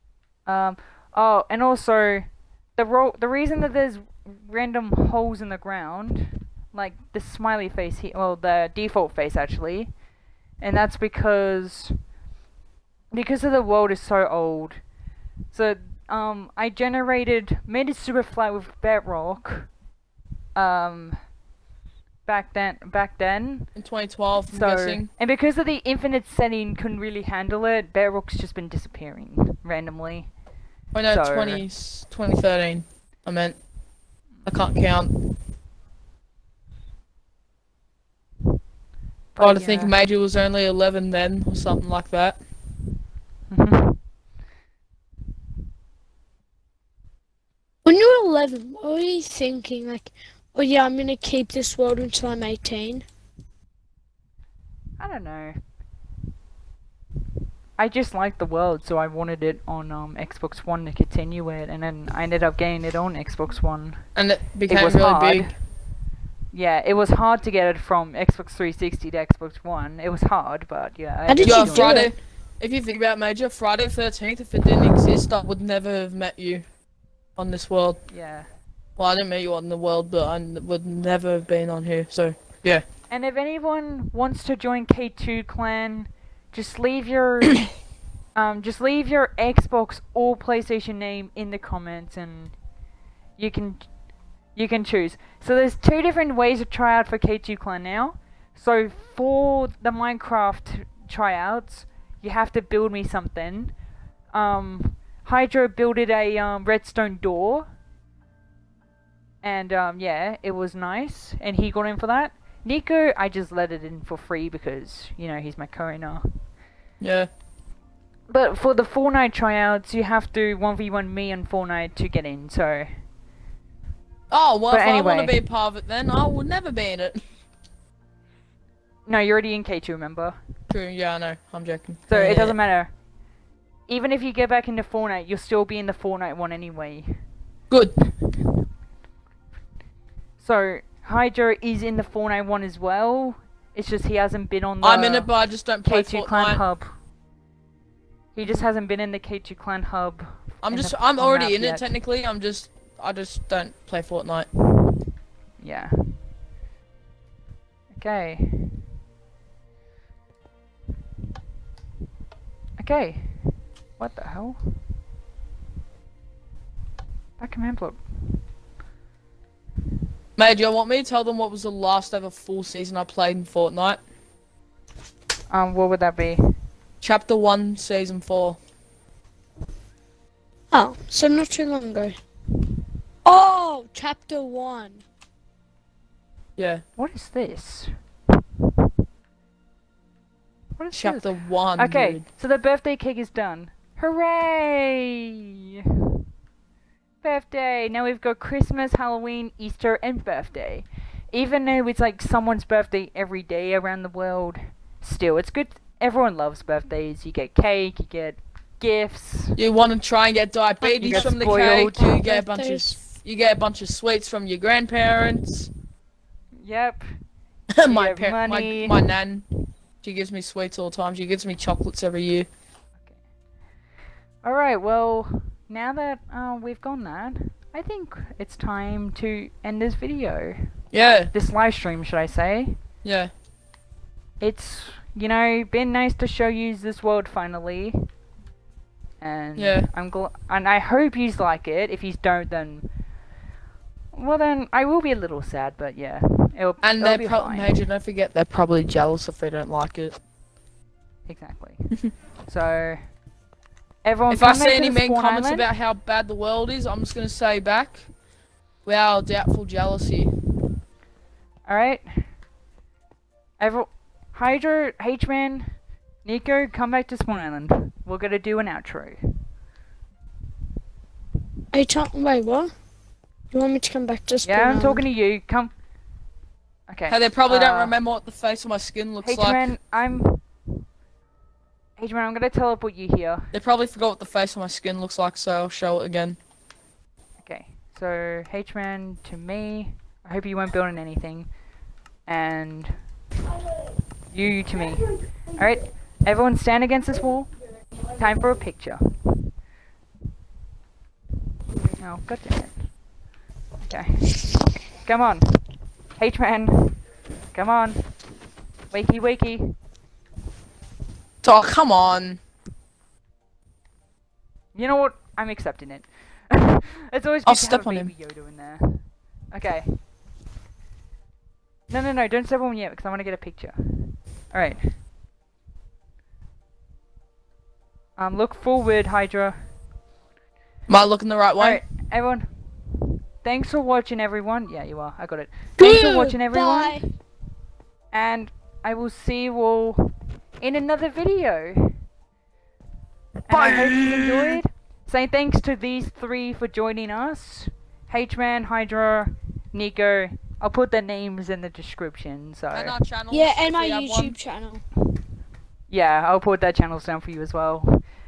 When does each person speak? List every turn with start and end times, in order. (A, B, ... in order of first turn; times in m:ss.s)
0:00.4-0:09.9 A
0:10.6-0:11.9 A
0:13.1-0:14.8 A
0:15.5-0:19.7 A
0:20.5-0:21.2 A
0:22.2-0:23.7 A
0:23.7-0:25.1 B
0:24.5-0:30.3 A
0:30.9-0:33.6 B
0:31.1-0:31.6 A
0:34.4-0:35.1 B
0:39.3-0:39.9 A
0:39.4-0:42.4 B
0:43.5-0:44.0 A
0:47.8-0:53.0 C
0:55.0-0:55.6 A
0:57.8-1:04.0 A
1:04.2-1:05.5 B
1:04.7-1:05.5 A
1:06.5-1:12.0 A
1:11.3-1:12.1 C
1:11.4-1:16.6 B
1:17.4-1:18.0 B
1:18.1-1:18.5 A
1:19.0-1:22.8 B
1:23.1-1:27.6 A
1:28.3-1:32.5 A
1:33.4-1:33.9 A
1:34.5-1:43.7 A
1:44.3-1:47.6 A
1:49.4-1:56.3 A
1:57.0-1:57.3 B
1:58.3-2:03.0 A
2:04.3-2:07.2 B
2:04.7-2:05.4 A
2:09.1-2:10.4 A
2:10.7-2:12.6 B
2:12.1-2:12.9 A
2:13.9-2:17.1 A
2:17.7-2:18.0 B
2:20.4-2:25.3 A
2:24.8-2:26.6 B
2:25.8-2:26.9 A
2:28.3-2:31.9 A
2:30.6-2:34.5 B
2:35.6-2:36.2 A
2:37.9-2:38.8 A
2:42.8-2:44.6 A
2:47.4-2:48.0 A
2:50.4-2:54.0 B
2:55.5-2:56.4 A
2:57.0-2:58.6 B
3:00.7-3:02.2 C
3:03.2-3:05.0 C
3:06.6-3:06.8 B
3:07.0-3:07.9 A
3:10.8-3:15.3 A
3:10.9-3:12.2 B
3:17.2-3:29.6 A
3:29.6-3:35.7 B
3:30.8-3:32.1 A
3:31.0-3:33.0 C
3:36.6-3:37.0 A
3:37.7-3:39.4 B
3:37.8-3:39.0 A
3:40.0-3:42.5 B
3:44.4-3:50.7 A
3:50.9-3:51.3 B
3:51.3-3:52.8 A
3:53.0-3:53.3 B
3:54.4-3:58.0 A
3:59.2-4:02.9 A
3:59.6-3:59.9 B
4:04.1-4:07.8 A
4:06.8-4:10.2 B
4:11.3-4:13.0 A
4:14.0-4:15.7 A
4:14.3-4:18.1 B
4:18.8-4:20.3 B
4:21.7-4:22.3 A
4:23.6-4:29.2 A
4:31.7-4:32.7 C
4:33.5-4:35.0 C
4:34.4-4:35.7 A
4:36.9-4:37.9 A
4:37.1-4:39.6 B
4:39.2-4:40.4 A
4:42.0-4:43.5 A
4:43.5-4:46.4 B
4:47.4-4:51.5 A
4:52.2-4:53.0 A
4:54.3-4:57.5 A
4:58.1-4:59.1 A
5:02.0-5:02.9 A
5:03.8-5:05.6 A
5:06.2-5:07.0 A
5:07.5-5:08.1 A
5:08.9-5:09.7 A
5:11.4-5:12.4 B
5:14.7-5:19.9 A
5:17.4-5:18.1 B
5:21.9-5:24.9 A
5:28.2-5:29.6 A
5:30.9-5:31.8 B
5:31.6-5:37.0 A
5:35.8-5:37.0 C
5:38.1-5:41.9 A
5:43.5-5:52.9 A
5:43.5-5:44.6 B
5:52.7-5:54.4 B
5:53.3-5:54.8 C
5:55.9-5:58.0 A